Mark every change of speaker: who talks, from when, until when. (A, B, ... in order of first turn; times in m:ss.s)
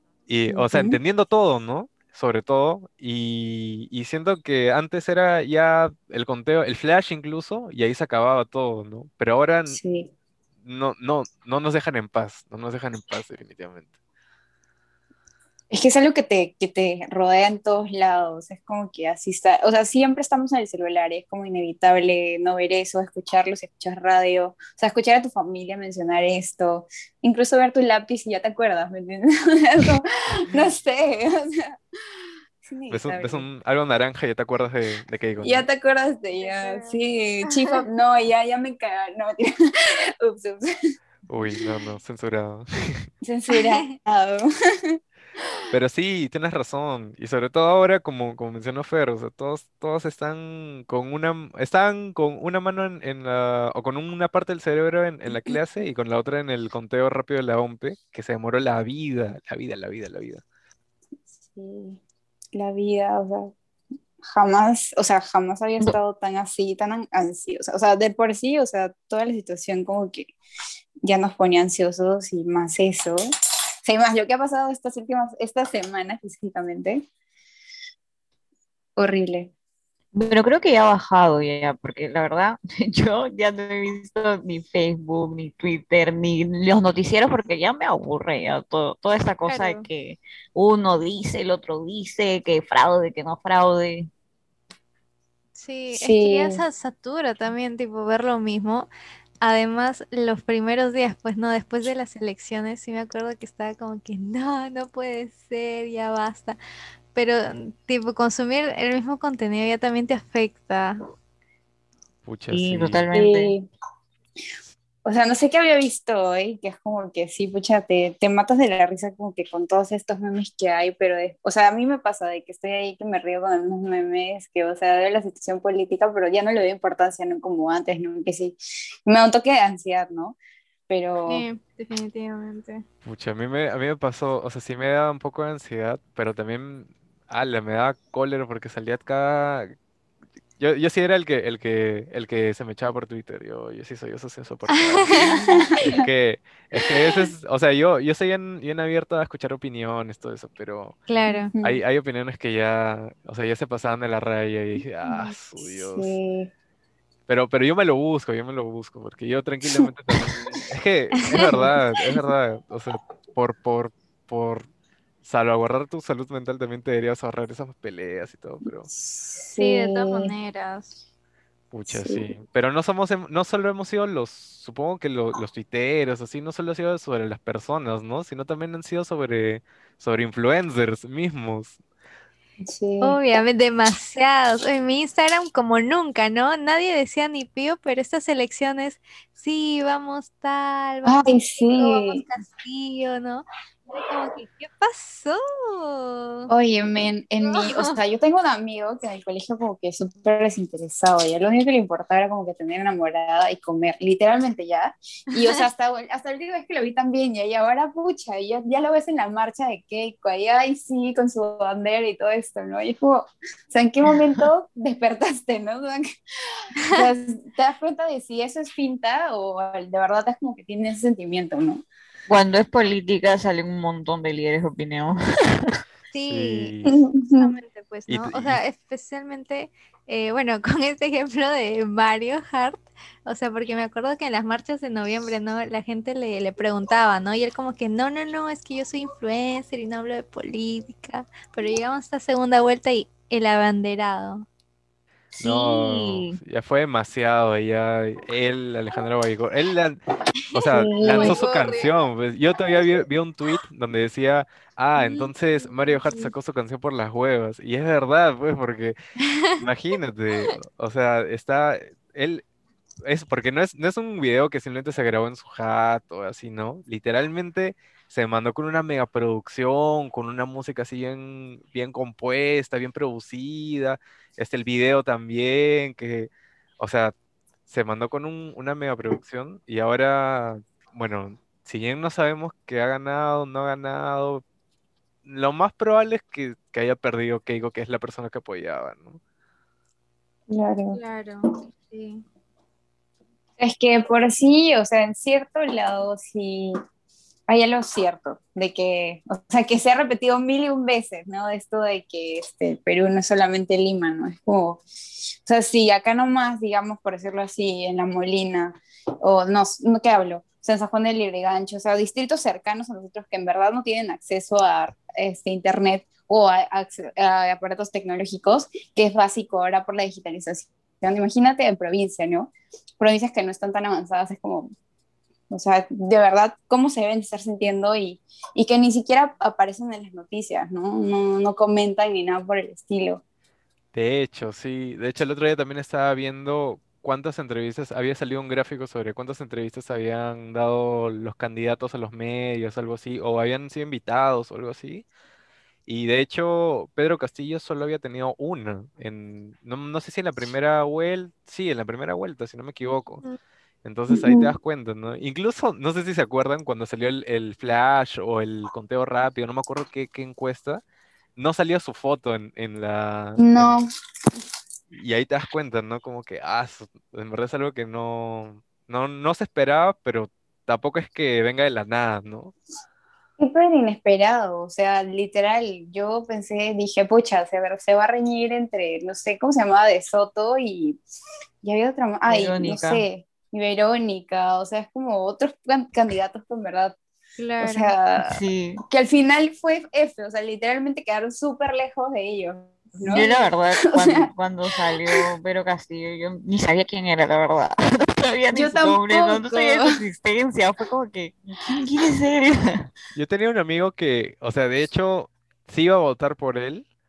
0:00.3-0:09.8 A
0:00.5-0:01.0 B
0:09.7-0:10.1 B
0:10.6-0:13.9 A
0:15.7-0:31.8 B
0:32.6-0:33.4 B
0:32.9-0:35.7 A
0:35.4-0:40.9 B
0:36.4-0:37.7 C
0:41.3-0:43.1 A
0:43.2-0:45.0 B
0:43.5-0:43.9 C
0:45.7-1:00.4 A
1:01.5-1:02.0 B
1:02.5-1:03.5 B
1:04.2-1:10.4 B
1:11.0-1:13.2 B
1:13.8-1:17.0 B
1:19.0-1:19.5 B
1:20.1-1:34.1 D
1:29.5-1:29.9 C
1:35.6-1:38.9 C
1:35.9-1:36.6 B
1:39.4-1:46.6 C
1:47.1-1:51.0 C
1:52.2-1:53.1 A
1:52.5-1:53.6 D
1:53.1-1:53.7 B
1:55.0-2:10.4 B
2:10.9-2:11.5 B
2:11.3-2:12.8 C
2:13.0-2:19.7 A
2:20.6-2:31.0 A
2:24.8-2:25.5 C
2:25.4-2:26.0 B
2:31.1-2:31.5 C
2:31.3-2:31.8 B
2:31.6-2:36.2 A
2:35.1-2:36.5 B
2:37.3-2:44.7 A
2:41.3-2:41.8 B
2:45.2-2:48.9 A
2:49.0-2:50.3 B
2:49.6-2:51.0 C
2:51.7-3:01.8 A
2:51.9-2:52.3 B
3:02.6-3:03.2 B
3:03.0-3:16.5 C
3:11.1-3:12.2 B
3:16.5-3:41.8 B
3:17.4-3:17.8 C
3:42.3-3:45.8 D
3:46.1-3:46.8 C
3:46.2-3:47.0 A
3:46.8-3:47.5 B
3:47.4-4:04.5 C
3:48.1-3:48.6 A
4:05.4-4:10.0 A
4:05.4-4:06.4 D
4:10.5-4:19.0 A
4:10.7-4:11.4 B
4:11.0-4:11.9 C
4:19.3-4:19.6 C
4:19.6-4:22.4 A
4:23.0-4:37.2 A
4:37.7-4:44.4 A
4:45.2-4:49.2 A
4:50.5-4:51.0 B
4:50.9-4:52.2 C
4:53.6-4:56.7 B
4:57.5-5:04.8 B
5:05.4-5:24.7 B
5:25.5-5:33.2 B
5:33.9-5:45.1 A
5:45.9-5:53.2 A
5:53.8-6:00.8 A
5:54.1-5:54.5 B
6:01.4-6:03.8 A
6:03.4-6:03.9 B
6:04.9-6:12.6 A
6:13.4-6:21.0 B
6:21.6-6:27.0 B
6:22.3-6:23.0 D
6:27.4-6:28.0 C
6:27.6-6:33.3 B
6:28.2-6:28.8 D
6:33.0-6:42.9 D
6:33.1-6:33.4 C
6:38.5-6:40.0 B
6:43.2-6:46.9 A